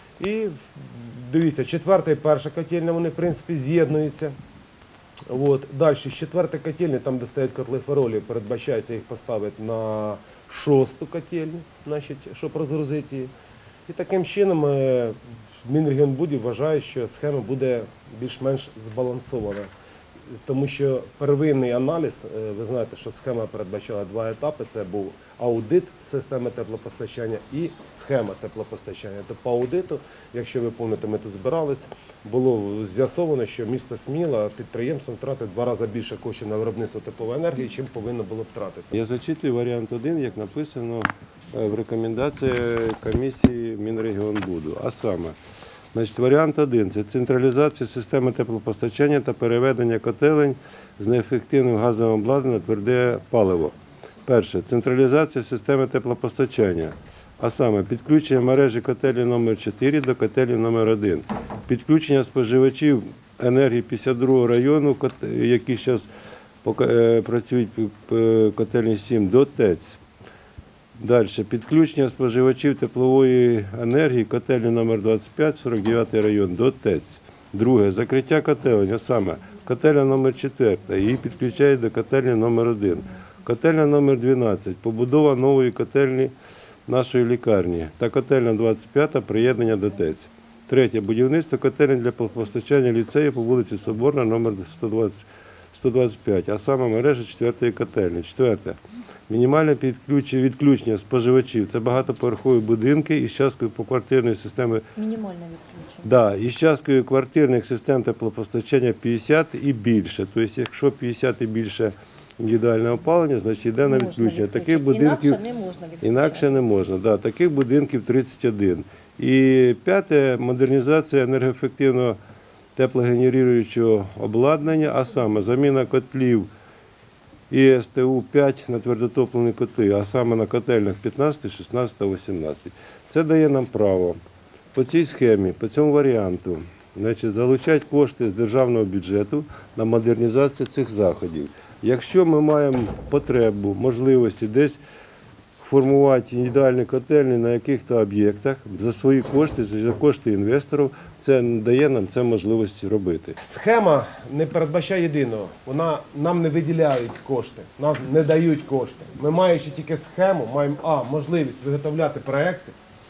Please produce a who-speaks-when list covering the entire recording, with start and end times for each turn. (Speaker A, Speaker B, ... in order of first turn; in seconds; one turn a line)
Speaker A: 0.2-4.3
Speaker A: 5.3-13.3
Speaker A: 13.9-19.7
Speaker A: 20.5-38.9
Speaker B: 38.9-45.4
Speaker B: 45.9-66.1
Speaker B: 66.6-70.0
Speaker B: 71.0-86.3
Speaker B: 86.9-98.8
Speaker B: 99.3-104.9
Speaker C: 105.0-106.1
Speaker B: 106.0-115.4
Speaker C: 113.8-116.7
Speaker B: 116.0-122.2
Speaker B: 122.8-126.5
Speaker B: 127.5-134.2
Speaker B: 134.7-144.8
Speaker B: 145.6-153.4
Speaker A: 153.4-162.8